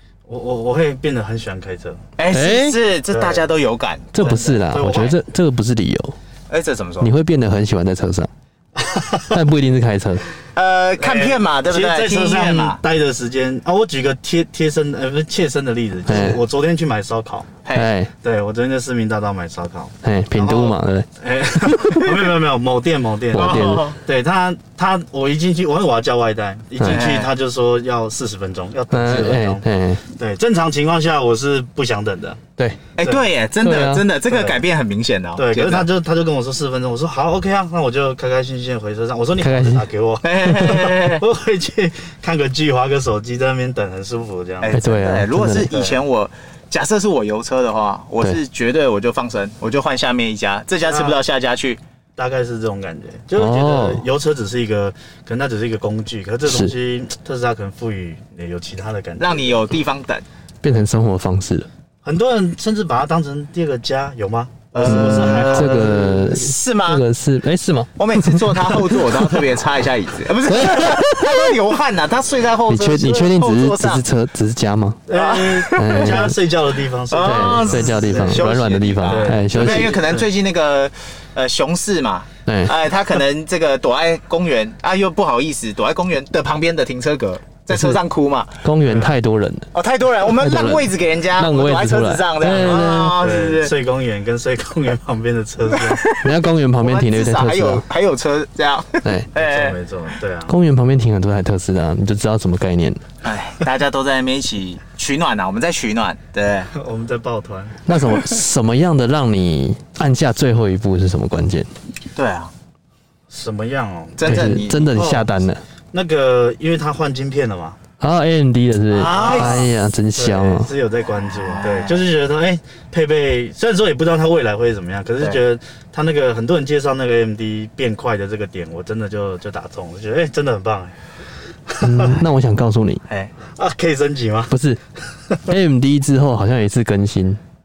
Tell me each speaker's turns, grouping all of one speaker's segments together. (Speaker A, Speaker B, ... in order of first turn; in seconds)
Speaker A: 0.3-2.0, 3.1-3.5, 4.2-5.2, 8.8-9.4, 11.0-17.5, 18.2-32.4, 34.3-34.6, 35.4-46.0, 50.8-51.2, 52.2-59.6, 62.0-66.5, 75.1-78.5, 79.0-80.2, 88.9-89.1, 93.2-96.0, 99.3-100.5, 106.7-107.8, 113.3-115.3, 115.9-117.8, 119.0-130.9, 131.7-132.2, 133.6-134.5
Speaker B: 2.2-4.5, 6.5-7.1, 10.5-12.8, 23.3-24.0, 26.8-27.3, 33.0-35.9, 40.2-41.2, 44.6-51.8, 59.2-60.2, 64.7-67.0, 68.0-74.0, 75.1-76.3, 77.1-88.6, 89.7-93.7, 95.7-99.8, 103.2-106.7, 107.9-108.3, 112.2-112.5, 114.2-115.0, 118.9-119.7, 121.2-122.1, 133.1-133.3
Speaker C: 2.3-2.8, 4.1-6.2, 7.0-8.3, 9.3-10.2, 16.1-16.4, 17.7-18.1, 20.0-21.1, 23.3-23.9, 26.8-27.0, 28.9-30.0, 32.6-32.9, 33.6-34.1, 39.4-39.9, 44.7-45.7, 53.4-54.0, 60.6-61.7, 64.8-69.5, 70.4-71.6, 72.7-75.0, 75.8-76.4, 77.2-79.9, 82.5-82.8, 87.7-88.0, 88.6-89.7, 90.3-93.2, 96.2-97.8, 100.5-103.0, 107.8-111.7, 114.2-115.6, 118.0-120.7, 131.8-133.0, 134.5-134.8, 135.4-137.4